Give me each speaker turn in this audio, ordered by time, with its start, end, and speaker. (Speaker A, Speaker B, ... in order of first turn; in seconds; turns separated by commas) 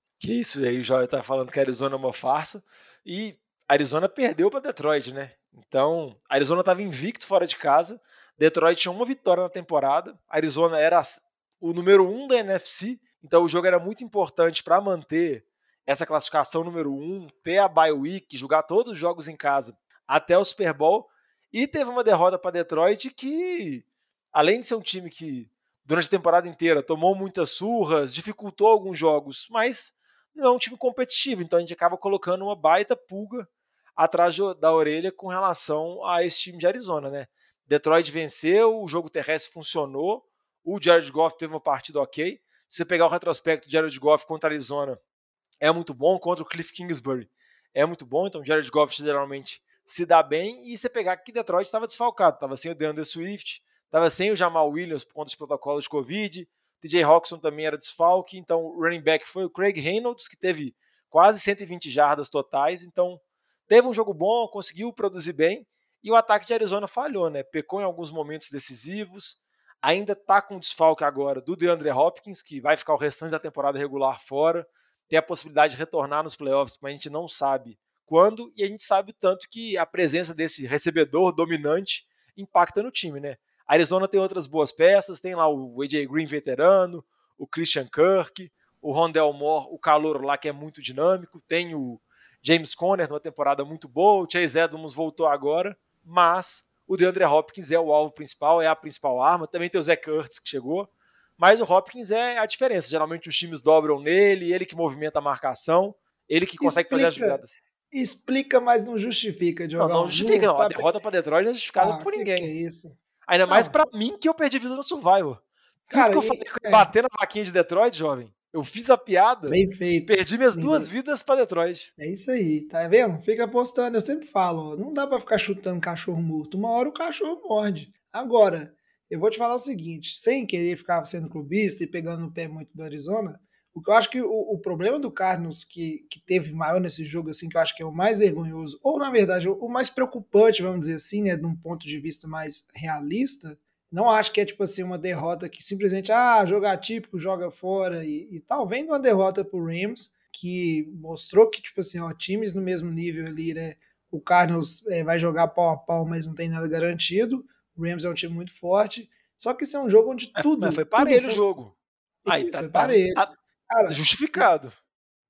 Speaker A: 0.2-45.0, Speaker A: 45.6-107.5, Speaker B: 106.6-107.4, Speaker B: 107.9-110.9, Speaker A: 109.8-112.5, Speaker B: 111.8-113.0, Speaker A: 113.3-121.9, Speaker B: 113.5-113.7, Speaker B: 115.9-116.9, Speaker B: 119.5-120.9, Speaker B: 122.0-161.4, Speaker A: 160.4-161.7, Speaker B: 162.2-164.5, Speaker A: 162.3-163.3, Speaker A: 163.8-164.7